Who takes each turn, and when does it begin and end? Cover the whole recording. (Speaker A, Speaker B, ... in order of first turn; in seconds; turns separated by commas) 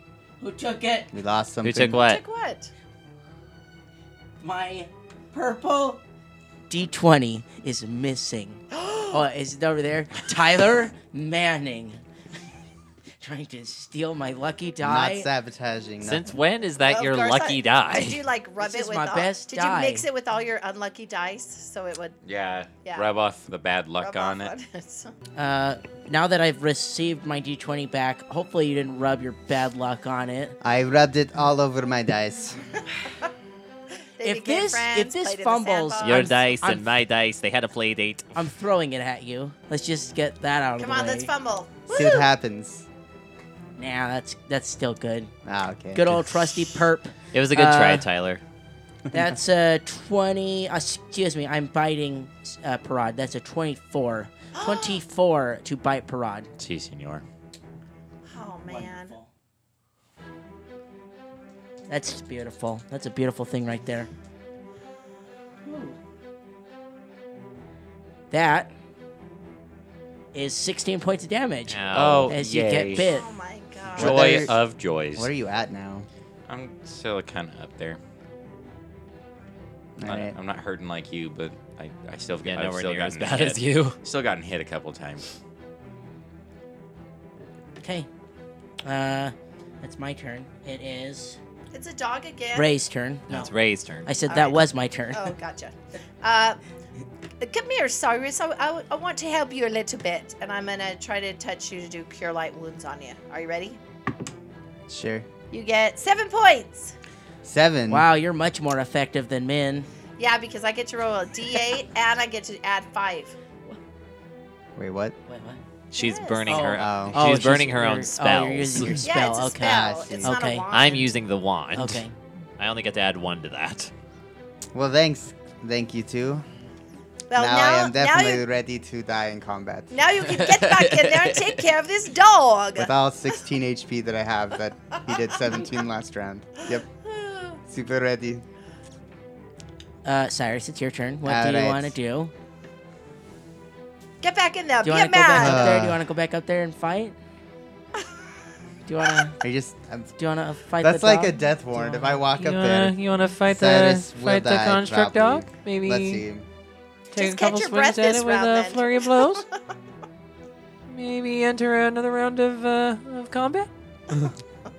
Speaker A: 0.4-1.1, Speaker B: 1.1-2.0, Speaker C: 1.6-2.2, Speaker D: 2.0-2.7, Speaker A: 4.4-6.0, Speaker A: 6.7-12.0, Speaker D: 8.8-9.2, Speaker A: 13.2-15.3, Speaker B: 14.8-16.3, Speaker C: 16.0-18.2, Speaker D: 16.9-22.2, Speaker A: 18.6-20.1, Speaker E: 22.2-24.5, Speaker D: 22.8-23.1, Speaker D: 24.0-25.1, Speaker A: 25.4-30.6, Speaker B: 30.6-32.6, Speaker D: 34.2-36.3, Speaker A: 34.2-36.9, Speaker C: 36.0-38.4, Speaker A: 38.4-41.3, Speaker D: 40.8-42.3, Speaker B: 41.9-42.9, Speaker A: 43.8-45.3, Speaker B: 45.5-46.8, Speaker A: 45.9-48.1, Speaker C: 47.3-48.4, Speaker A: 49.1-56.5, Speaker D: 54.5-55.0, Speaker E: 56.6-57.2, Speaker D: 58.3-59.1, Speaker A: 58.7-59.3, Speaker A: 61.9-64.1, Speaker A: 65.6-66.0, Speaker A: 68.3-68.7, Speaker A: 70.3-73.3, Speaker C: 71.7-72.3, Speaker E: 71.9-73.2, Speaker D: 73.0-74.5, Speaker E: 74.0-75.3, Speaker B: 74.0-74.5, Speaker B: 75.1-76.1, Speaker E: 76.5-78.0, Speaker B: 80.0-80.4, Speaker E: 80.0-85.3, Speaker C: 82.5-84.0, Speaker A: 87.8-88.1, Speaker A: 88.8-91.4, Speaker D: 91.7-92.7, Speaker A: 92.5-93.5, Speaker C: 93.3-94.1, Speaker A: 94.0-95.3, Speaker D: 94.3-96.6, Speaker D: 97.4-103.8, Speaker B: 104.9-105.3, Speaker D: 105.5-107.0, Speaker B: 107.4-108.1, Speaker A: 107.9-109.9, Speaker D: 110.2-113.3, Speaker B: 114.8-115.2, Speaker A: 115.3-115.6, Speaker C: 115.9-119.0, Speaker D: 116.0-116.7, Speaker A: 116.5-120.7, Speaker B: 116.8-117.2, Speaker D: 119.0-121.1, Speaker B: 119.6-120.4, Speaker C: 120.7-122.0, Speaker A: 121.8-122.1, Speaker C: 122.6-123.9, Speaker B: 124.7-126.5, Speaker D: 127.3-128.4, Speaker B: 127.4-130.1, Speaker D: 129.9-132.9, Speaker B: 132.8-136.9, Speaker D: 136.7-137.6, Speaker B: 137.7-138.4, Speaker A: 140.1-142.3, Speaker B: 141.2-141.9, Speaker D: 144.2-145.7, Speaker A: 144.8-147.2, Speaker B: 145.4-146.0, Speaker A: 148.9-149.4, Speaker B: 149.4-150.1, Speaker A: 150.2-152.0, Speaker B: 150.8-156.5, Speaker C: 152.3-156.2, Speaker C: 157.1-159.4, Speaker D: 157.2-159.5, Speaker C: 160.9-164.3